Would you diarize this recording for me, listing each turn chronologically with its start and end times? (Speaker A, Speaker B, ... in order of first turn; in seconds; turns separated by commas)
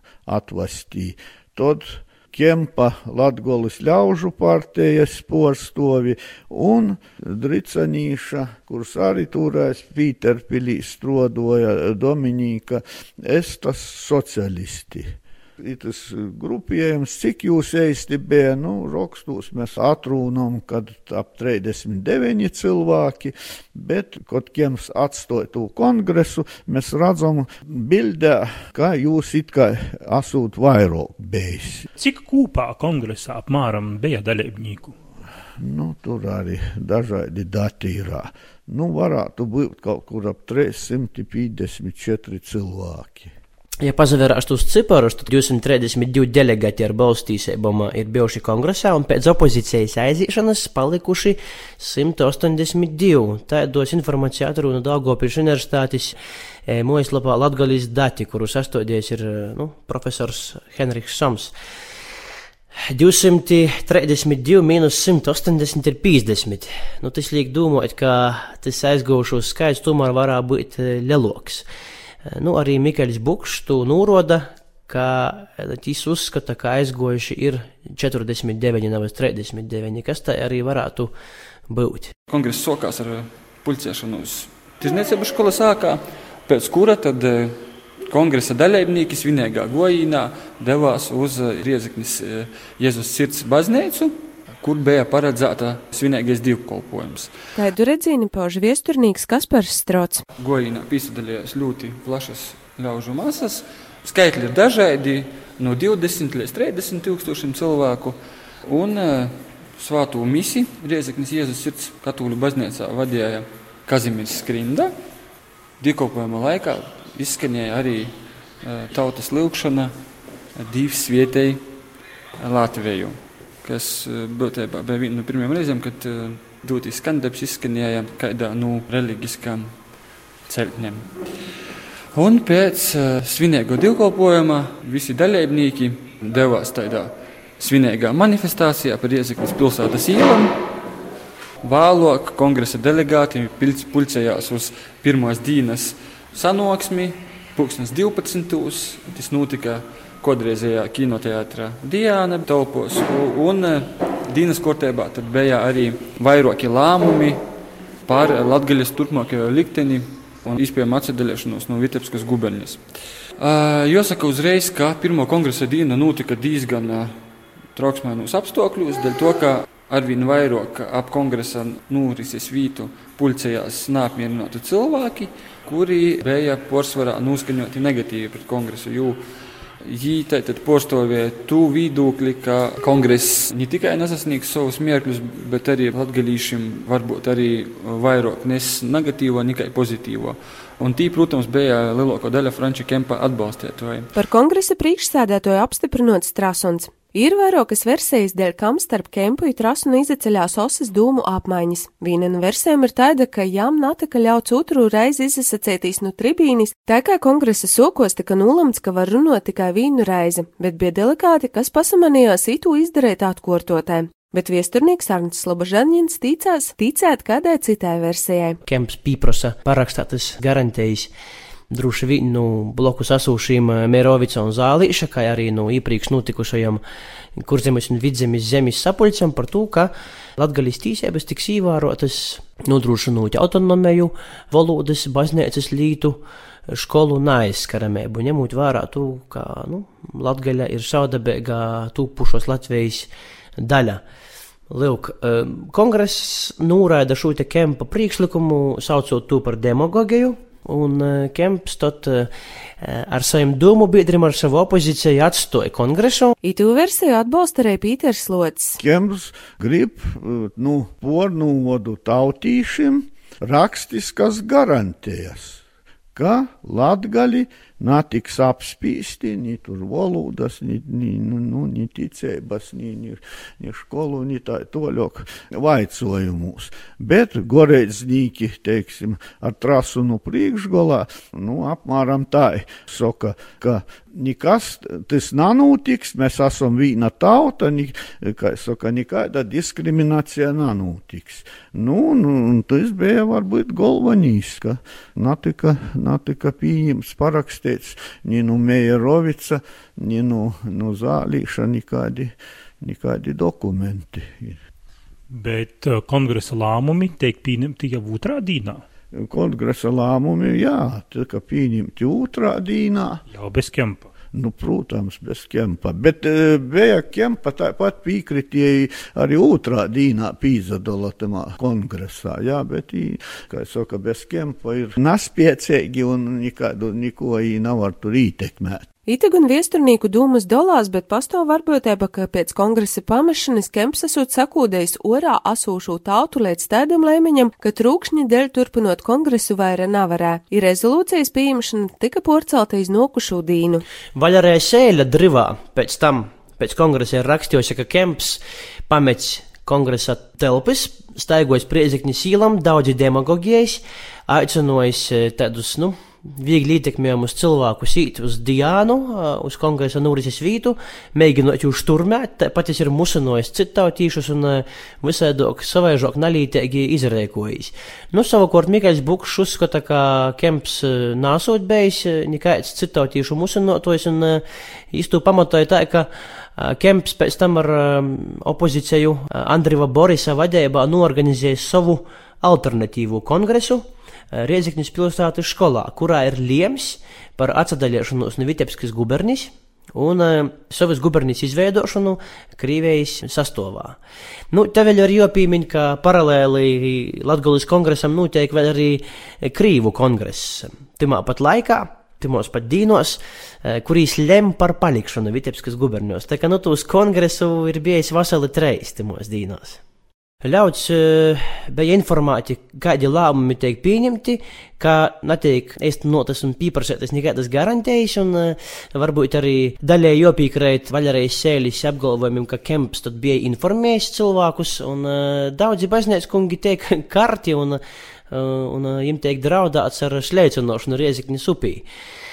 Speaker A: 0.3-31.9, Speaker B: 32.0-34.9, Speaker A: 35.6-43.3, Speaker C: 43.8-61.5, Speaker C: 62.9-71.7, Speaker C: 72.3-81.1, Speaker C: 81.7-82.1, Speaker D: 82.3-97.3, Speaker E: 97.5-100.2, Speaker D: 100.4-114.9, Speaker D: 115.8-119.9, Speaker D: 120.5-121.6, Speaker D: 122.4-129.7, Speaker D: 130.5-131.1, Speaker D: 132.1-140.6, Speaker D: 141.6-157.4, Speaker D: 158.1-162.8, Speaker D: 163.4-167.1, Speaker D: 167.7-179.2, Speaker D: 179.8-194.1, Speaker E: 194.1-218.6, Speaker C: 218.7-221.1, Speaker C: 221.7-226.8, Speaker C: 227.4-244.0, Speaker C: 244.7-256.3, Speaker E: 256.4-258.8, Speaker A: 258.8-265.6, Speaker A: 266.1-304.6, Speaker B: 305.4-308.8, Speaker A: 309.1-313.2, Speaker B: 313.4-314.0, Speaker A: 314.3-328.8, Speaker E: 329.1-343.8, Speaker C: 344.1-394.0, Speaker C: 394.5-409.8, Speaker C: 410.4-427.8, Speaker C: 428.3-431.8